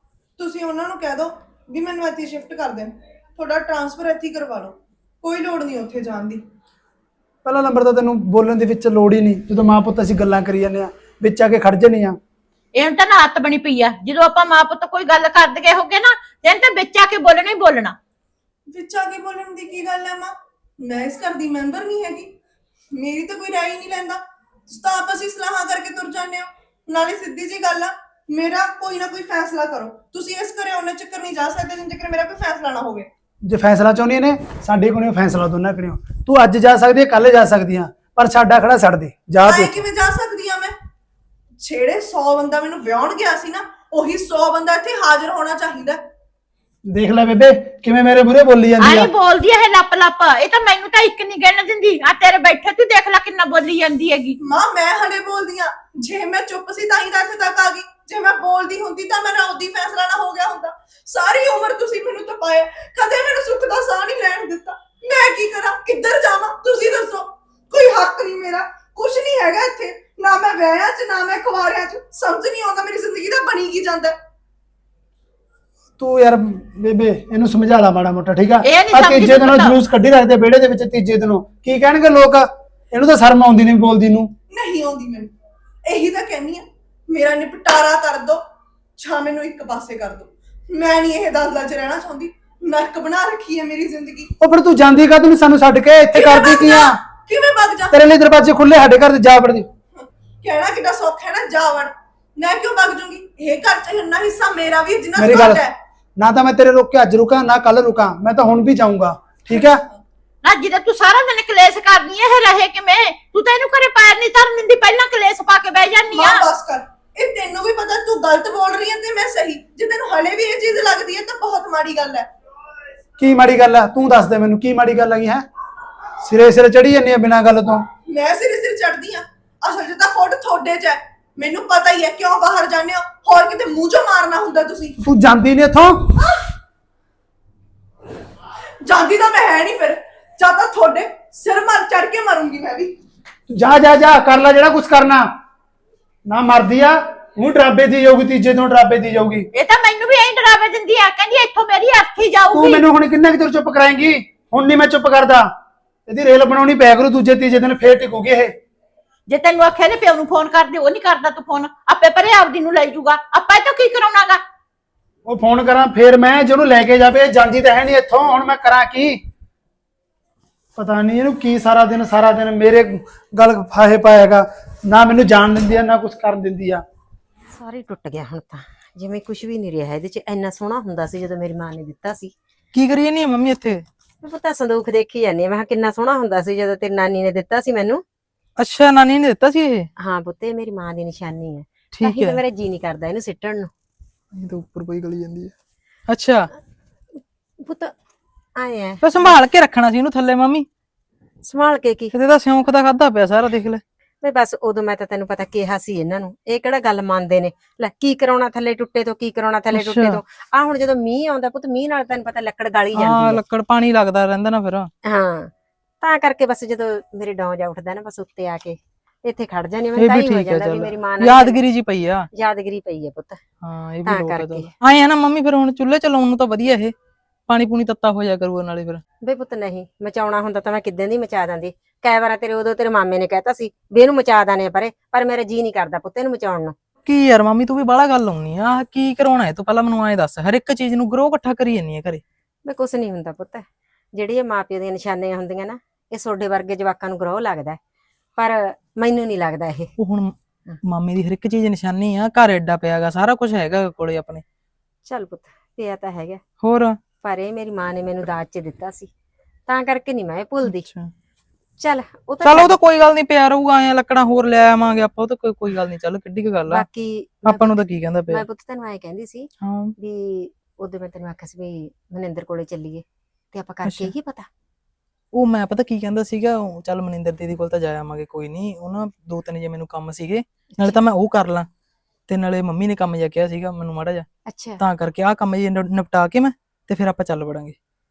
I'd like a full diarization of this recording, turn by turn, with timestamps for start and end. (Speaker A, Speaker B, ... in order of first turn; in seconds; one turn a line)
Speaker A: 0.4-6.4
Speaker B: 7.4-12.2
Speaker C: 12.7-17.9
Speaker A: 18.7-22.3
Speaker A: 22.9-33.1
Speaker B: 33.5-39.8
Speaker A: 39.4-40.7
Speaker A: 41.6-46.0
Speaker B: 46.9-49.1
Speaker C: 48.8-54.4
Speaker A: 54.4-74.2
Speaker B: 76.0-84.3
Speaker C: 78.6-79.7
Speaker A: 84.5-85.3
Speaker A: 85.9-88.4
Speaker A: 89.0-94.3
Speaker B: 94.4-97.0
Speaker A: 96.1-98.0
Speaker B: 97.9-99.7
Speaker A: 100.4-105.8
Speaker B: 105.2-105.6
Speaker B: 106.2-109.8
Speaker A: 109.5-110.0
Speaker C: 110.4-116.4
Speaker A: 116.1-122.3
Speaker B: 123.2-125.4
Speaker B: 126.2-127.8
Speaker A: 128.1-135.0
Speaker B: 135.0-136.1
Speaker A: 136.2-136.5
Speaker A: 138.8-142.9
Speaker B: 143.5-145.3
Speaker B: 146.3-149.5
Speaker C: 149.5-152.8
Speaker B: 152.5-155.5
Speaker B: 156.1-158.5
Speaker C: 159.3-164.4
Speaker B: 165.3-169.2
Speaker B: 170.8-176.8
Speaker D: 177.5-182.3
Speaker E: 182.7-183.8
Speaker D: 184.2-188.0
Speaker E: 188.6-189.9
Speaker D: 190.0-193.7
Speaker E: 191.9-192.4
Speaker E: 194.3-195.5
Speaker E: 196.1-196.5
Speaker D: 197.6-197.9
Speaker D: 198.6-199.3
Speaker E: 199.0-200.7
Speaker D: 201.4-202.1
Speaker E: 202.1-203.8
Speaker D: 204.2-213.4
Speaker E: 209.7-210.2
Speaker E: 212.9-214.9
Speaker D: 215.0-221.6
Speaker E: 219.9-222.3
Speaker D: 222.3-223.4
Speaker E: 223.6-226.9
Speaker D: 224.1-224.7
Speaker E: 227.5-229.0
Speaker D: 229.2-236.7
Speaker E: 237.1-242.2
Speaker D: 242.7-247.8
Speaker D: 248.4-249.9
Speaker E: 250.0-250.3
Speaker E: 250.8-254.4
Speaker D: 255.1-256.4
Speaker E: 256.6-257.0
Speaker D: 257.2-259.1
Speaker D: 259.7-260.9
Speaker E: 260.6-261.1
Speaker D: 261.8-262.7
Speaker E: 262.4-266.8
Speaker D: 266.7-274.5
Speaker E: 267.4-268.4
Speaker E: 269.6-269.9
Speaker E: 273.8-274.1
Speaker E: 275.3-281.7
Speaker E: 282.3-284.2
Speaker D: 284.5-284.8
Speaker E: 284.8-287.8